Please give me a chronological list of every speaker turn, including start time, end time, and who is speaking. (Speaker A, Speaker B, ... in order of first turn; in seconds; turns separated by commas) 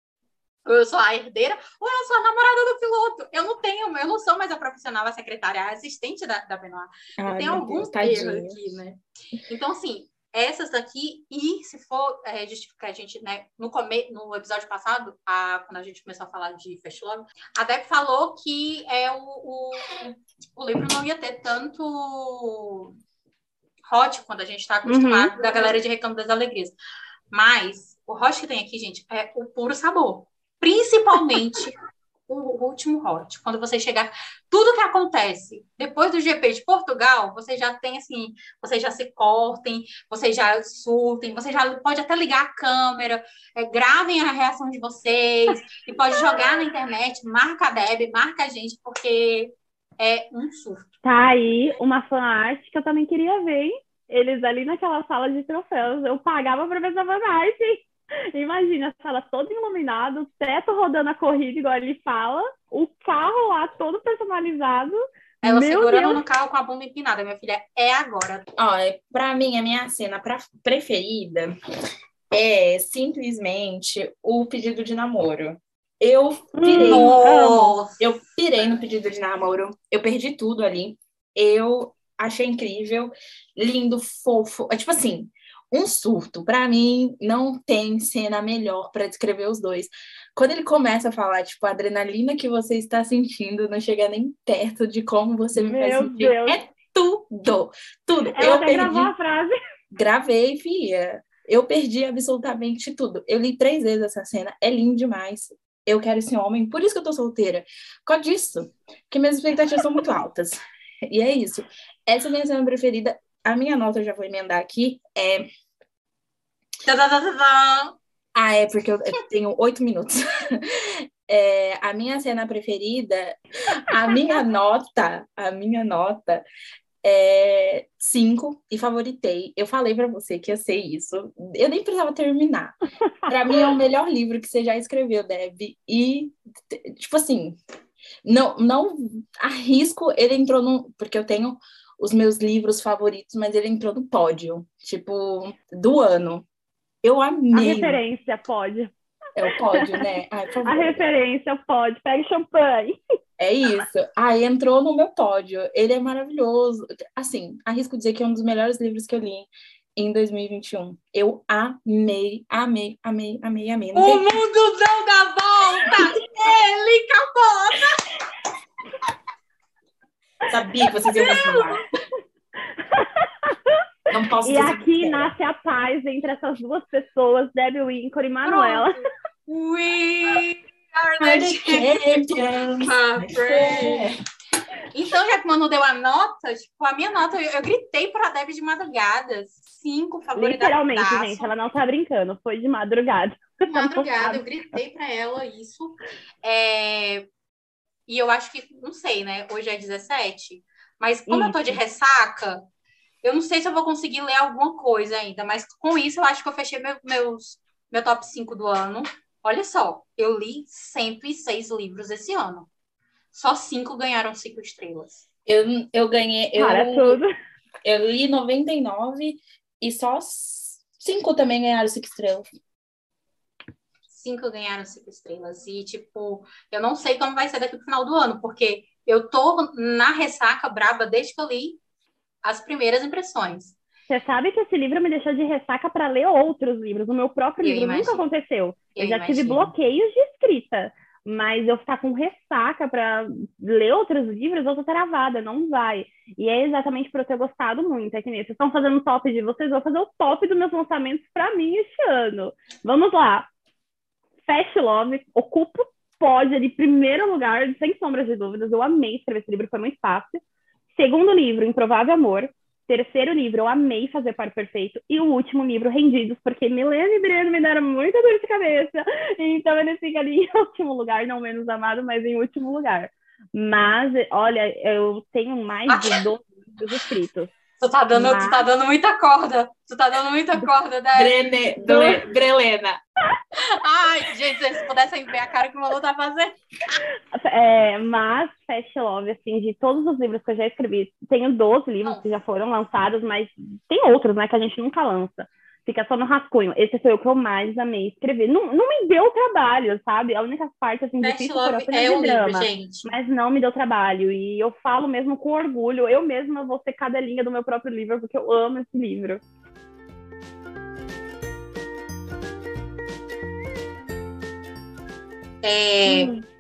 Speaker A: 0.6-22.9, Speaker B: 7.2-8.6, Speaker A: 23.9-26.7, Speaker C: 24.9-25.3, Speaker A: 27.3-31.8, Speaker A: 32.3-50.9, Speaker C: 51.0-66.2, Speaker A: 65.4-68.5, Speaker B: 68.6-71.5, Speaker B: 72.3-77.2, Speaker C: 76.5-77.8, Speaker A: 76.8-78.0, Speaker B: 78.0-96.4, Speaker C: 95.6-96.6, Speaker A: 96.5-97.2, Speaker B: 97.3-99.1, Speaker C: 98.3-99.6, Speaker B: 99.9-115.5, Speaker A: 116.8-118.0, Speaker B: 118.3-126.4, Speaker B: 127.0-137.6, Speaker B: 138.2-146.4, Speaker B: 147.0-148.0, Speaker C: 147.5-148.9, Speaker B: 149.3-151.0, Speaker C: 149.7-150.1, Speaker C: 150.6-153.0, Speaker B: 153.4-164.3, Speaker A: 163.9-168.1, Speaker B: 170.5-171.8, Speaker C: 172.7-179.0, Speaker B: 174.1-175.3, Speaker A: 178.4-182.0, Speaker B: 181.2-184.2, Speaker A: 182.8-184.1, Speaker A: 184.9-191.5, Speaker C: 190.3-194.4, Speaker A: 193.7-197.2, Speaker A: 198.1-202.6, Speaker C: 201.3-201.8, Speaker A: 203.2-212.7, Speaker A: 213.3-215.2, Speaker B: 215.4-217.2, Speaker C: 216.6-217.3, Speaker B: 217.8-222.4, Speaker A: 224.1-231.8, Speaker A: 232.4-233.8, Speaker C: 234.1-253.5, Speaker A: 237.6-238.2, Speaker A: 238.9-239.7, Speaker C: 254.4-260.4, Speaker C: 260.9-277.5, Speaker A: 275.9-276.3, Speaker A: 277.8-281.3, Speaker C: 278.1-278.6, Speaker B: 281.1-283.0, Speaker C: 281.8-282.2, Speaker A: 283.6-286.6, Speaker C: 287.3-309.4, Speaker A: 301.2-303.1, Speaker A: 315.6-316.3, Speaker C: 316.0-316.4